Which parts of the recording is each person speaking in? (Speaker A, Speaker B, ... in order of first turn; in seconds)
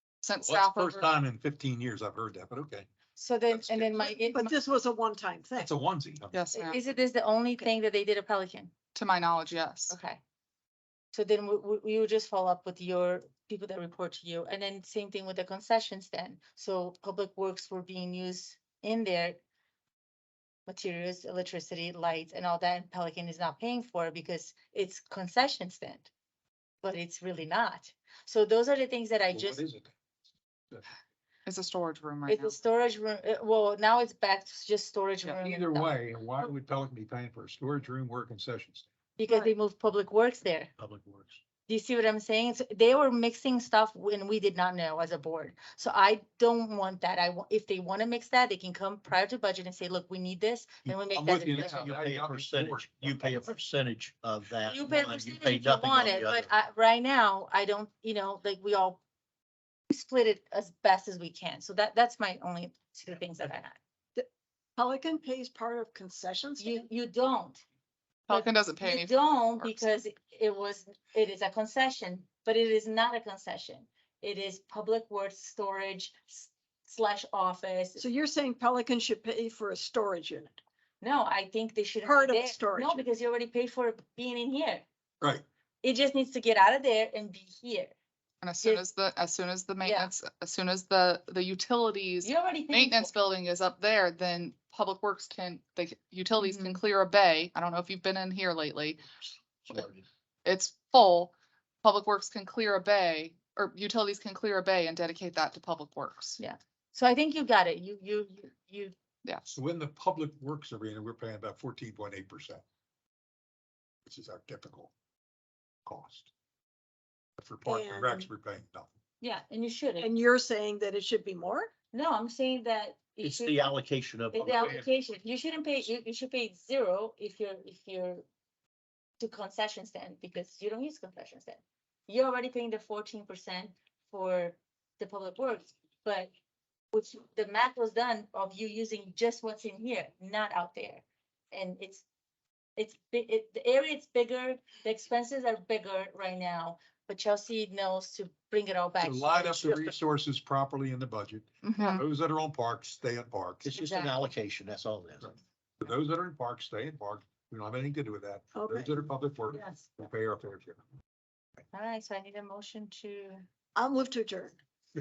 Speaker A: 0.2-1.0, 6.3-6.8, 8.9-10.0, 31.5-32.5, 68.3-69.8, 88.4-99.0, 100.5-101.3, 101.8-106.4, 109.2-109.6, 151.7-152.0
Speaker B: 0.4-2.9, 5.6-6.4, 29.3-29.7, 35.5-38.9, 51.1-52.9, 109.6-112.5, 114.0-114.9, 115.9-116.3, 117.4-118.9, 149.0-153.7, 155.8-160.8
Speaker C: 3.2-4.5, 6.5-8.7, 9.9-10.2, 11.1-19.4, 20.7-26.1, 26.8-29.6, 32.3-35.9, 39.2-40.7, 41.7-51.9, 54.7-59.0, 59.9-63.8, 66.6-67.6, 68.3-78.0, 81.0-84.9, 85.8-88.0, 89.8-90.1, 92.2-93.1, 96.4-96.8, 106.4-108.9, 119.2-120.1, 121.9-123.7, 124.3-128.2, 129.2-136.3, 136.9-142.1, 142.8-149.9, 151.7-152.0, 153.7-154.2, 159.5-159.9, 161.7-163.5
Speaker D: 4.0-5.7, 64.2-66.8, 78.0-80.6, 82.0-83.1, 117.7-118.3, 120.0-121.7, 158.5-159.0, 163.8-164.6
Speaker E: 40.8-41.4, 51.6-56.5, 99.7-100.0, 123.2-124.9, 153.6-155.4